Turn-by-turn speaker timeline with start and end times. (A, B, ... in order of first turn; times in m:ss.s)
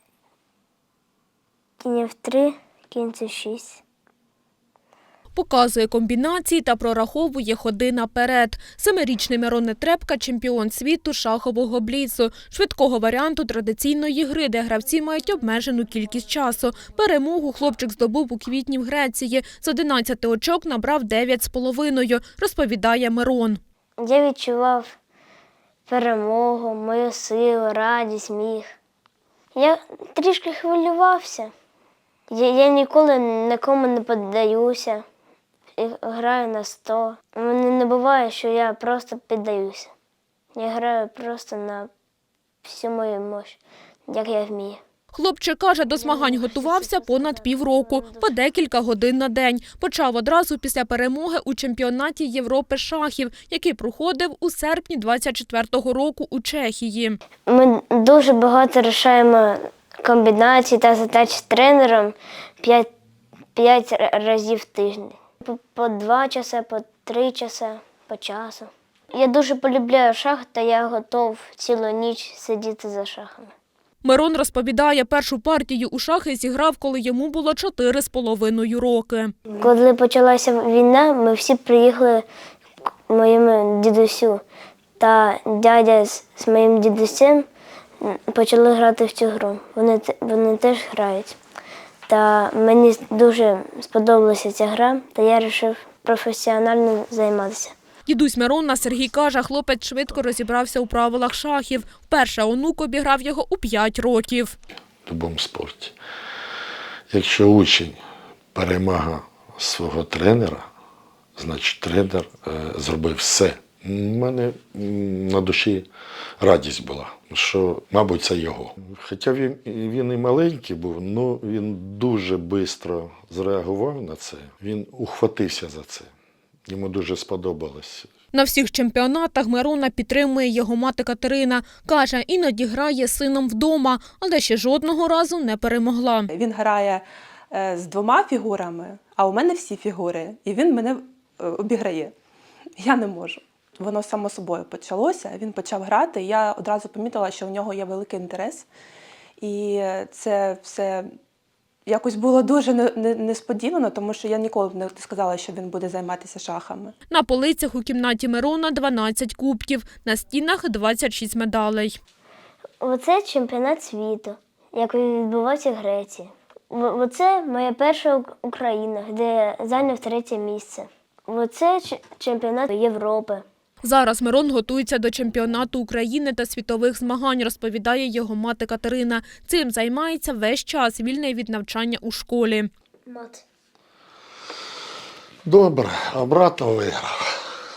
0:01.8-0:03.8 A
0:05.3-0:23.6 B
0:24.0-0:25.0 A
0:25.9-0:28.7 A
0:29.5-0:31.5 A
0:32.3-0:35.0 A
0:35.8-0:39.9 A
0:40.5-0:41.9 A
0:42.6-0:44.8 A
0:45.1-0:57.2 B
0:45.9-0:48.3 A
0:57.5-1:02.9 A
1:03.5-1:13.5 A
1:14.0-1:19.3 B
1:19.5-1:22.2 A
1:23.1-1:24.4 A
1:25.0-1:27.4 A
1:28.0-1:31.4 A
1:32.1-1:37.8 A
1:38.1-1:44.5 B
1:45.1-1:45.9 C
1:47.1-1:48.0 C
1:48.5-1:50.7 C
1:51.4-1:55.9 C
1:56.4-2:06.1 C
2:06.7-2:08.1 C
2:08.3-2:16.3 B
2:16.3-2:22.1 D
2:22.8-2:28.7 D
2:29.4-2:31.1 D
2:31.9-2:36.9 D
2:37.1-2:42.0 B
2:42.8-2:53.4 A
2:53.8-3:02.7 B
3:03.1-3:03.4 A
3:05.4-3:07.3 C